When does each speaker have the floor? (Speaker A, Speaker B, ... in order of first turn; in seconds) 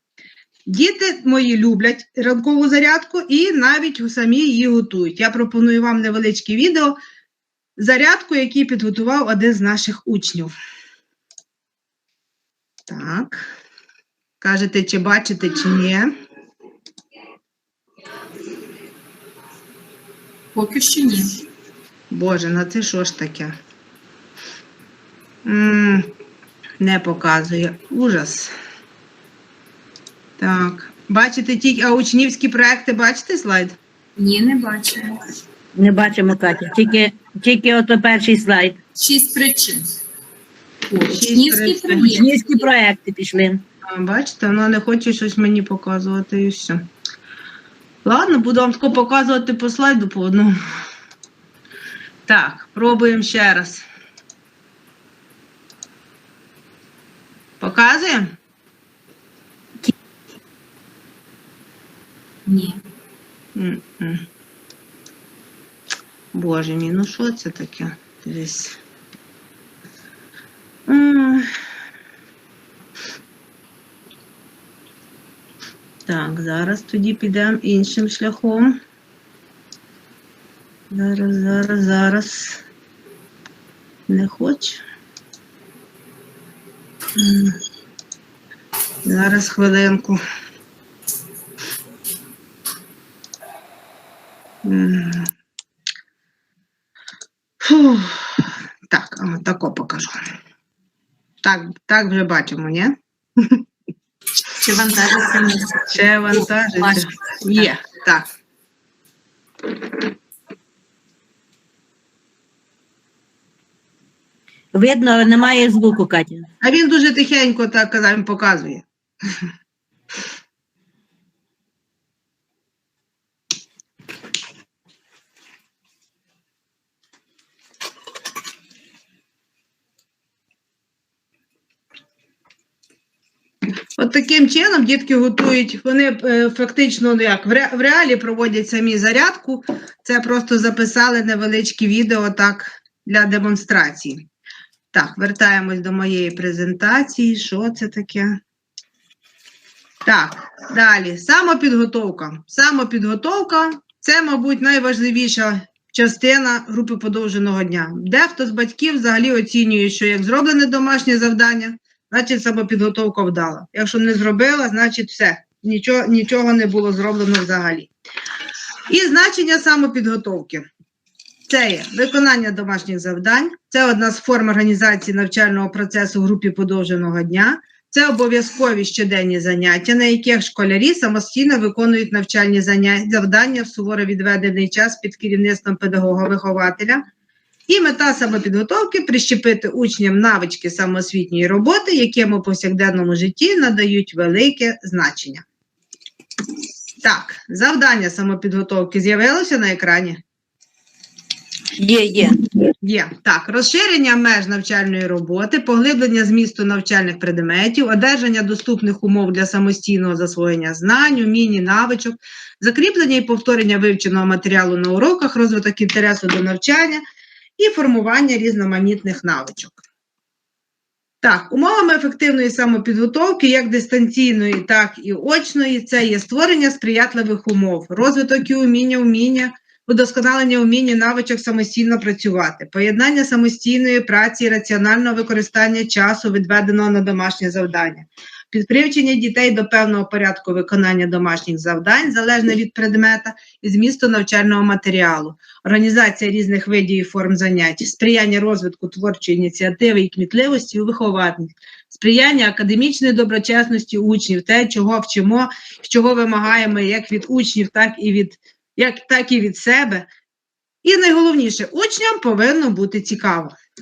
Speaker A: 0.7-7.0, 7.8-10.5, 12.9-13.5, 14.4-16.1, 22.1-23.6, 25.4-26.1, 26.8-28.5, 30.4-33.8, 41.1-42.1, 43.8-46.9, 48.0-50.8, 52.3-53.9, 57.6-58.3, 63.5-64.2, 66.3-68.8, 70.9-71.5, 76.1-78.8, 80.9-82.6, 84.1-84.8, 87.2-87.6, 89.0-90.2, 94.6-95.3, 97.6-100.2, 101.4-103.6, 105.9-108.3, 116.6-119.5, 134.0-144.3, 144.9-148.4, 150.1-167.9, 168.9-170.7, 171.5-187.0, 187.7-195.4, 197.0-200.2, 202.8-217.0, 217.6-219.8, 221.2-260.1, 260.8-263.6
Speaker B: 20.5-21.4, 34.2-35.2, 39.0-39.9, 40.9-42.6, 62.5-62.8, 104.4-107.7
Speaker C: 35.8-38.8, 42.0-43.6, 114.7-116.5, 201.8-202.4